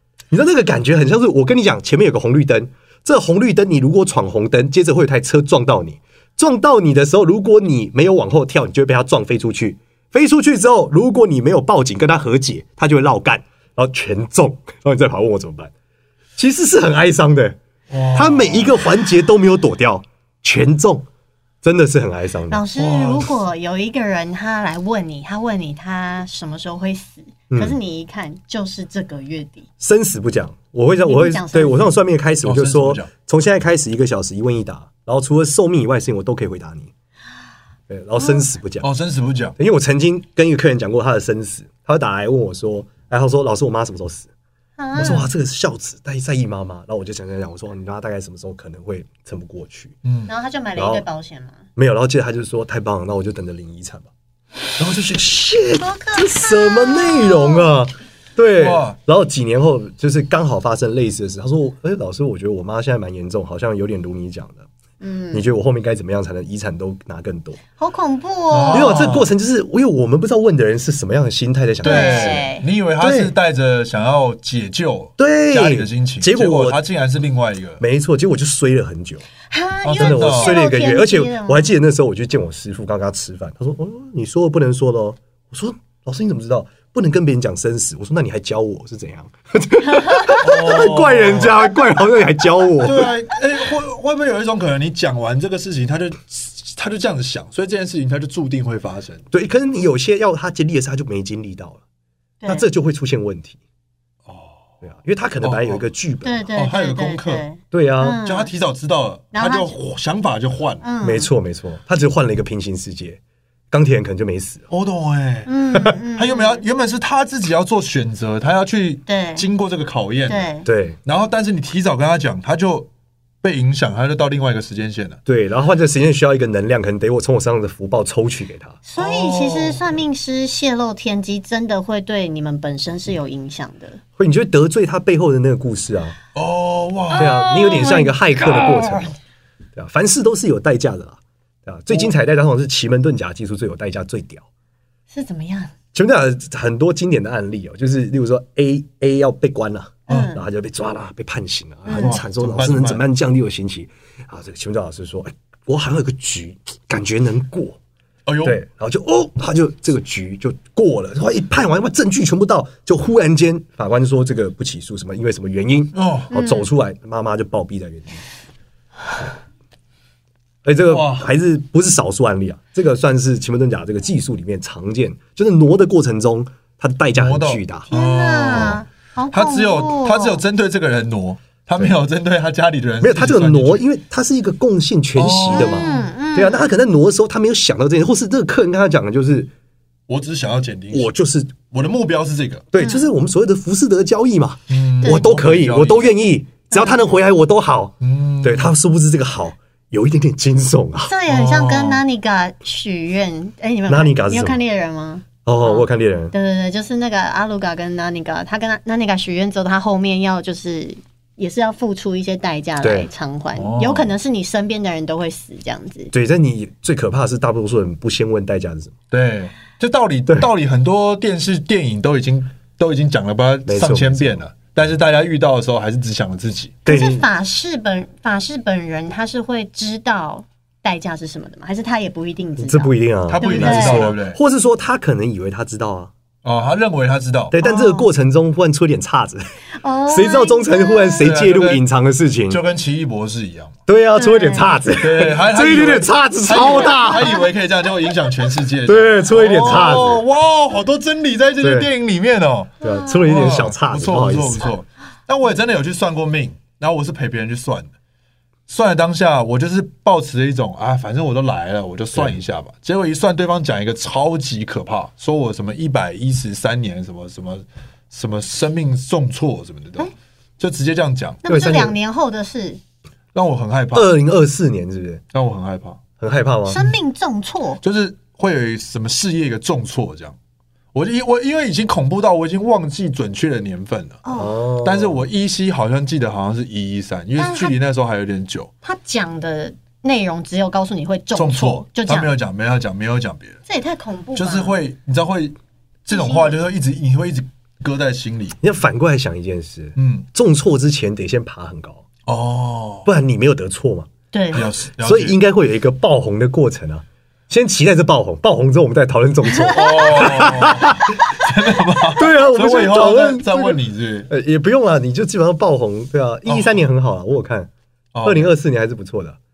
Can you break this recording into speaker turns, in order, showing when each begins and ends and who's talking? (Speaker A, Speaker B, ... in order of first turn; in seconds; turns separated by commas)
Speaker A: 0.3-15.7, Speaker A: 16.4-17.6, Speaker B: 17.9-18.8, Speaker A: 18.1-21.1, Speaker A: 21.6-22.6, Speaker C: 22.5-29.7, Speaker B: 22.8-23.3, Speaker A: 27.5-27.8, Speaker A: 29.8-36.9, Speaker C: 31.0-32.0, Speaker B: 32.4-33.1, Speaker A: 37.9-38.9, Speaker B: 38.8-39.6, Speaker A: 39.6-44.3, Speaker C: 44.8-45.3, Speaker A: 45.0-50.0, Speaker B: 50.0-50.3, Speaker C: 50.3-51.6, Speaker A: 50.8-51.0, Speaker A: 51.8-54.1, Speaker A: 54.8-64.7, Speaker C: 55.8-57.7, Speaker B: 58.6-59.0, Speaker C: 65.0-65.5, Speaker A: 65.3-67.6, Speaker C: 67.8-69.1, Speaker B: 68.5-69.3, Speaker A: 68.7-72.5, Speaker B: 71.8-77.8, Speaker C: 71.8-72.7, Speaker A: 73.0-73.3, Speaker A: 75.2-76.8, Speaker A: 77.8-79.2, Speaker C: 79.5-81.7, Speaker B: 79.8-80.6, Speaker A: 80.0-93.1, Speaker B: 90.3-91.6, Speaker B: 92.8-99.2, Speaker A: 99.3-101.8, Speaker C: 102.4-102.7, Speaker A: 102.5-103.6, Speaker B: 104.2-104.7, Speaker A: 104.8-106.5, Speaker B: 105.4-105.8, Speaker C: 106.2-108.5, Speaker B: 106.5-107.5, Speaker A: 107.7-108.2, Speaker B: 108.2-110.8, Speaker C: 109.3-109.7, Speaker C: 110.8-111.3, Speaker A: 111.0-113.2, Speaker A: 113.7-114.7, Speaker B: 114.7-115.5, Speaker C: 115.5-116.6, Speaker B: 116.1-120.5, Speaker C: 119.1-119.5, Speaker C: 120.3-120.7, Speaker A: 120.7-121.0, Speaker B: 121.0-122.9, Speaker B: 123.4-125.2, Speaker A: 125.3-128.8, Speaker C: 128.9-134.0, Speaker B: 129.0-129.9, Speaker A: 134.2-136.2, Speaker B: 136.3-137.4, Speaker C: 137.1-138.8, Speaker A: 137.2-139.2, Speaker A: 139.8-144.4, Speaker C: 145.1-145.7, Speaker A: 145.9-157.8, Speaker C: 150.1-150.4, Speaker C: 151.9-152.2, Speaker B: 151.9-153.0, Speaker B: 158.3-158.6, Speaker A: 158.4-168.2, Speaker B: 165.9-166.3, Speaker C: 166.3-166.7, Speaker A: 170.6-177.9, Speaker B: 170.9-171.3, Speaker B: 177.1-183.8, Speaker C: 177.9-180.4, Speaker A: 183.0-189.5, Speaker B: 185.2-186.0, Speaker C: 185.5-186.6, Speaker B: 190.1-191.1, Speaker A: 190.9-191.5, Speaker B: 191.7-192.7, Speaker A: 192.7-201.1, Speaker C: 192.8-193.1, Speaker B: 194.7-196.2, Speaker C: 195.0-195.3, Speaker C: 196.7-197.2, Speaker B: 198.0-198.7, Speaker C: 201.1-216.1, Speaker B: 201.3-202.0, Speaker A: 203.9-204.6, Speaker A: 205.4-206.3, Speaker A: 212.8-213.1, Speaker B: 213.6-214.2, Speaker A: 216.1-218.9, Speaker B: 219.1-226.8, Speaker A: 223.7-224.5, Speaker A: 226.8-227.2, Speaker C: 226.9-234.1, Speaker A: 232.6-236.1, Speaker B: 233.3-234.4, Speaker B: 236.4-237.5, Speaker A: 237.5-239.5, Speaker C: 237.6-238.1, Speaker C: 239.8-241.3, Speaker A: 240.1-242.6, Speaker B: 241.2-241.8, Speaker B: 242.5-243.7, Speaker A: 243.9-247.4, Speaker C: 244.2-244.8, Speaker B: 245.0-252.7, Speaker C: 246.9-247.3, Speaker A: 248.9-250.2, Speaker A: 251.6-251.9, Speaker A: 252.8-254.7, Speaker C: 252.8-253.2, Speaker B: 253.2-257.9, Speaker B: 258.7-271.4, Speaker C: 271.4-272.8, Speaker A: 271.5-271.9, Speaker B: 273.3-274.1, Speaker A: 273.9-275.2, Speaker B: 275.3-276.0, Speaker A: 276.2-276.8, Speaker C: 276.7-277.8, Speaker B: 277.8-280.4, Speaker B: 280.9-284.2, Speaker C: 284.2-284.6, Speaker A: 284.3-285.2, Speaker B: 284.8-288.7, Speaker C: 287.4-287.8, Speaker C: 288.8-292.3, Speaker B: 291.4-293.6, Speaker C: 293.7-294.8, Speaker B: 294.4-298.6, Speaker C: 296.1-296.6, Speaker A: 298.6-302.1, Speaker B: 300.0-300.3, Speaker B: 302.3-303.1, Speaker A: 303.1-304.1, Speaker C: 304.3-304.7, Speaker B: 304.5-305.4, Speaker A: 305.0-311.1, Speaker B: 309.7-314.3, Speaker A: 312.2-317.7, Speaker B: 316.5-316.8, Speaker B: 318.1-318.5, Speaker A: 318.2-319.4